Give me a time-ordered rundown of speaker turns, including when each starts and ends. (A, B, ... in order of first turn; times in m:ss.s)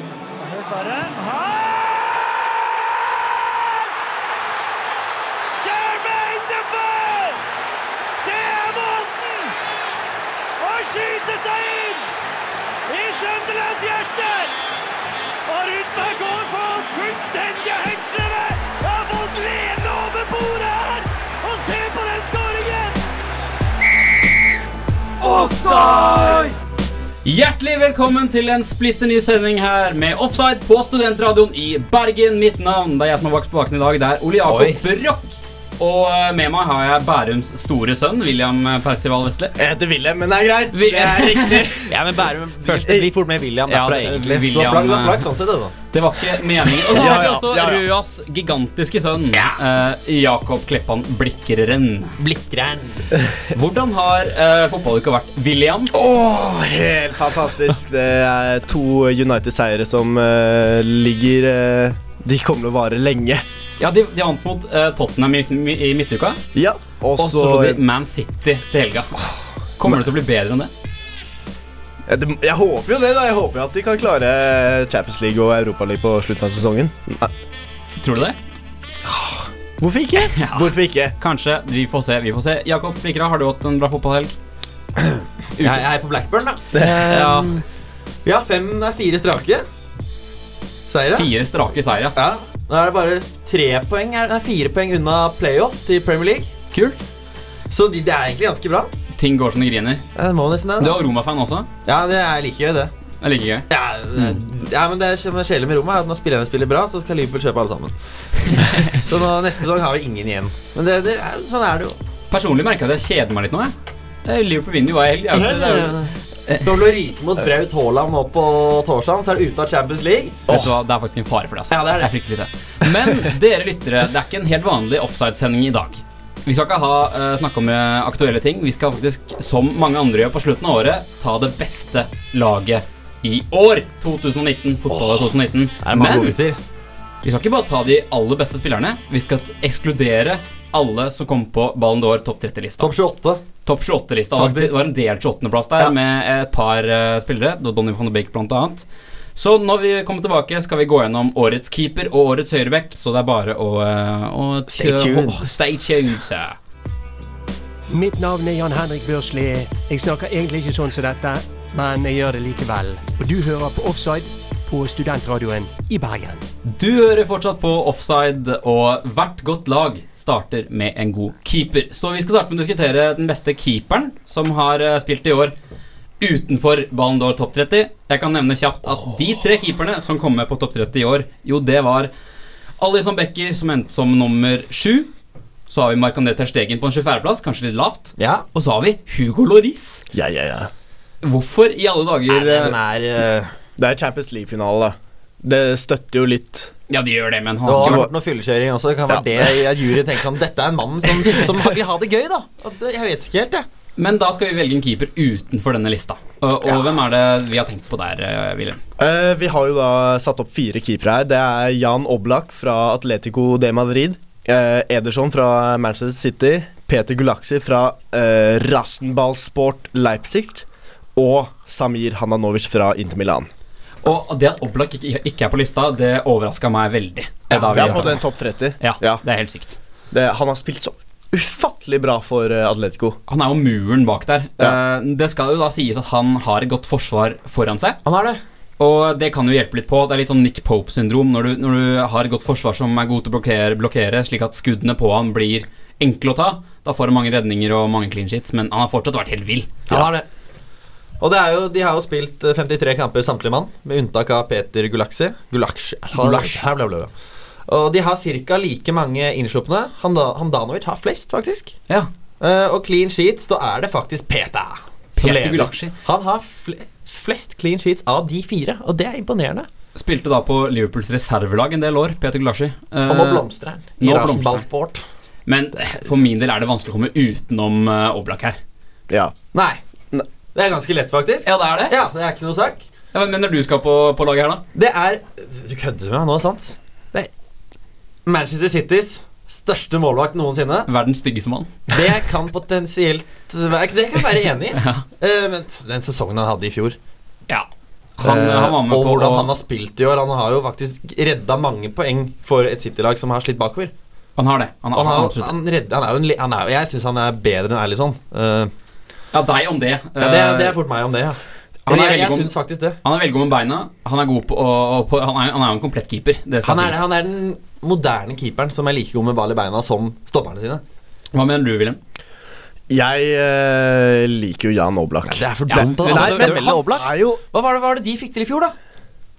0:00.4-0:03.9 A
0:05.6-0:07.4 A
0:08.2-0:09.5 A
0:10.6-0:12.1 A
0:12.9-0:14.5 A
0:15.5-0:23.0 A
0:25.2-0:26.5 A
0:25.9-0:26.5 B
0:26.0-0:26.3 C
0:27.2-0:39.6 B
0:34.5-0:34.8 C
0:39.6-0:42.0 D
0:40.7-0:41.7 B
0:41.9-0:45.7 C
0:42.7-0:43.1 D
0:43.7-0:45.2 B
0:45.9-0:52.2 B
0:46.9-0:47.8 D
0:52.2-0:53.0 C
0:53.5-0:55.9 B
0:55.9-1:03.4 D
1:03.8-1:06.4 B
1:06.6-1:07.8 D
1:07.2-1:09.2 B
1:09.8-1:10.7 B
1:12.1-1:17.3 D
1:18.0-1:18.4 B
1:19.0-1:21.2 D
1:20.2-1:24.3 B
1:25.0-1:27.6 C
1:25.6-1:25.8 B
1:26.8-1:27.6 B
1:28.2-1:29.7 C
1:30.9-1:31.3 C
1:31.1-1:32.2 B
1:32.2-1:36.5 C
1:36.7-1:37.0 B
1:37.7-1:38.9 C
1:39.2-1:40.0 B
1:40.2-1:41.0 C
1:40.8-1:41.7 B
1:41.8-1:42.9 C
1:43.2-1:44.4 B
1:43.7-1:47.9 C
1:48.4-1:49.0 B
1:48.6-1:52.0 C
1:52.3-1:53.7 B
1:54.2-1:56.7 B
1:55.3-2:00.4 C
2:00.5-2:00.7 D
2:00.5-2:16.4 B
2:01.7-2:02.1 C
2:14.9-2:16.6 C
2:17.2-2:22.9 B
2:22.8-2:23.4 C
2:23.6-2:36.6 B
2:24.4-2:24.8 C
2:34.7-2:35.5 C
2:37.9-2:46.4 E
2:46.7-2:55.5 B
2:56.2-3:02.1 B
3:02.8-3:05.1 B
3:05.7-3:10.0 B
3:08.2-3:08.5 C
3:10.1-3:10.7 D
3:11.2-3:12.8 B
3:12.3-3:13.5 C
3:13.8-3:16.7 D
3:16.9-3:18.1 B
3:17.7-3:23.7 C
3:17.7-3:18.1 D
3:19.1-3:19.7 D
3:24.0-3:28.8 B
3:29.0-3:43.5 D
3:44.0-3:48.2 B
3:47.5-3:48.1 C
3:47.7-3:49.2 D
3:48.8-3:49.8 B
3:50.1-3:53.2 D
3:53.3-3:58.0 B
3:58.0-3:58.4 C
3:58.8-4:09.7 B
4:09.9-4:10.3 C
4:11.2-4:17.1 C
4:16.2-4:16.6 B
4:17.7-4:21.7 C
4:22.4-4:29.7 C
4:25.2-4:25.9 B
4:30.0-4:33.4 B
4:33.1-4:35.0 C
4:34.0-4:34.6 B
4:35.5-4:38.6 B
4:39.1-4:39.4 D
4:39.5-4:39.8 C
4:40.5-4:42.8 C
4:41.4-4:42.0 B
4:43.1-4:44.6 B
4:44.7-4:47.3 C
4:48.3-4:50.9 C
4:50.9-4:51.7 B
4:51.9-4:57.0 C
4:54.8-4:55.0 B
4:58.2-4:59.5 B
4:58.2-5:03.9 C
5:04.4-5:05.5 B
5:05.0-5:08.7 C
5:09.3-5:10.8 B
5:10.2-5:13.0 C
5:11.9-5:17.0 B
5:16.6-5:20.8 C
5:21.3-5:22.0 B
5:22.9-5:27.4 D
5:25.3-5:28.7 C
5:25.7-5:26.7 B